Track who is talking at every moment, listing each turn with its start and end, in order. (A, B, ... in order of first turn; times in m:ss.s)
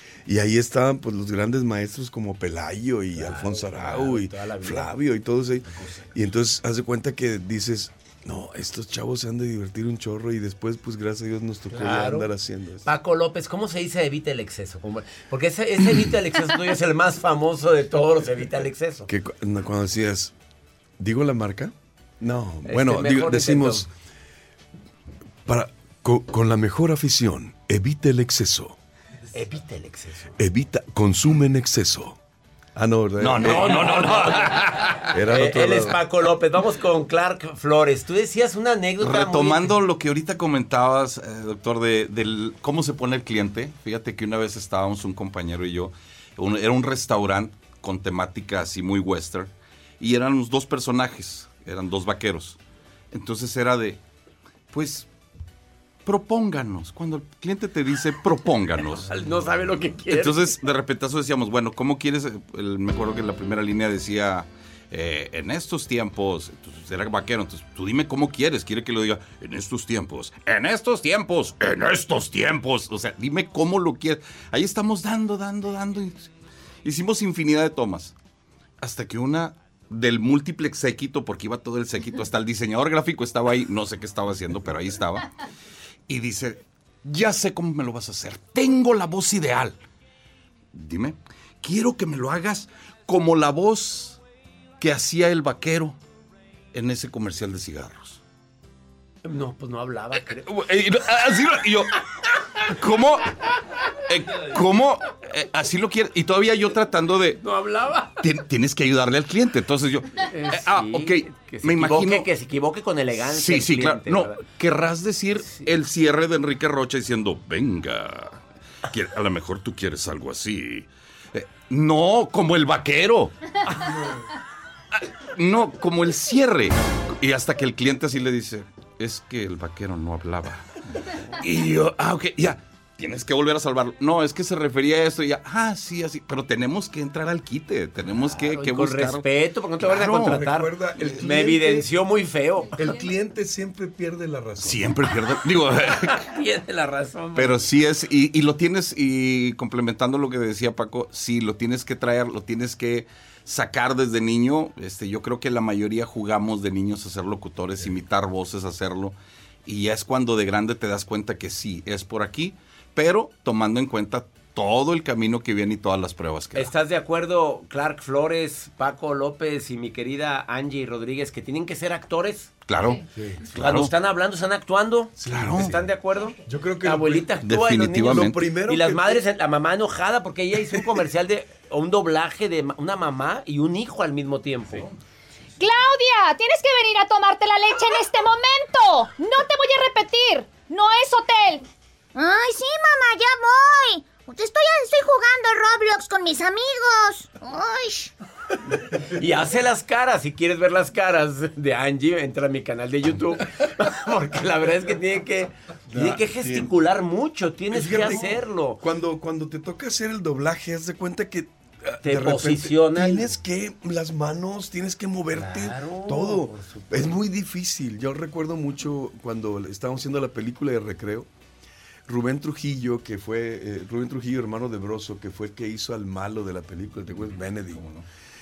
0:00.2-0:12.9 A
0:03.2-0:04.9 B
0:11.7-0:12.3 B
0:12.8-0:19.1 B
0:19.1-0:20.3 A
0:21.0-0:23.9 A
0:22.7-0:23.9 B
0:25.5-0:28.8 A
0:29.3-0:30.4 B
0:30.4-0:32.2 A
0:32.8-0:34.3 A
0:33.2-0:34.9 C
0:33.4-0:39.7 B
0:35.0-0:36.0 A
0:39.0-0:52.6 C
0:53.1-0:54.0 C
0:54.7-0:55.1 C
0:56.0-0:59.2 C
0:59.0-1:00.5 B
1:00.1-1:16.3 C
1:16.8-1:18.1 C
1:18.8-1:25.3 C
1:26.1-1:29.8 C
1:30.7-1:34.2 C
1:34.8-1:36.0 C
1:36.7-1:38.2 C
1:39.2-1:40.5 B
1:40.4-1:41.9 C
1:42.6-1:43.3 C
1:44.1-1:47.4 C
1:47.4-1:48.2 B
1:48.2-1:52.3 C
1:50.3-1:54.4 B
1:53.3-1:58.4 C
1:55.4-1:55.7 B
1:58.9-2:03.3 C
2:05.4-2:10.6 C
2:11.4-2:19.2 C
2:18.4-2:22.8 B
2:19.8-2:21.9 A
2:22.7-2:24.9 A
2:24.6-2:26.2 C
2:25.9-2:27.6 B
2:27.4-2:46.7 C
2:46.6-2:52.6 B
2:52.7-2:53.9 C
2:53.1-2:53.4 A
2:53.5-3:04.9 B
2:55.2-2:55.9 A
2:55.2-2:55.8 C
2:56.4-2:59.3 A
2:57.4-2:58.4 C
3:05.6-3:11.6 D
3:12.2-3:18.1 E
3:19.0-3:28.8 B
3:25.9-3:26.7 A
3:27.7-3:41.3 A
3:32.0-3:33.3 B
3:35.3-3:37.2 B
3:42.1-3:47.9 A
3:47.1-3:48.0 C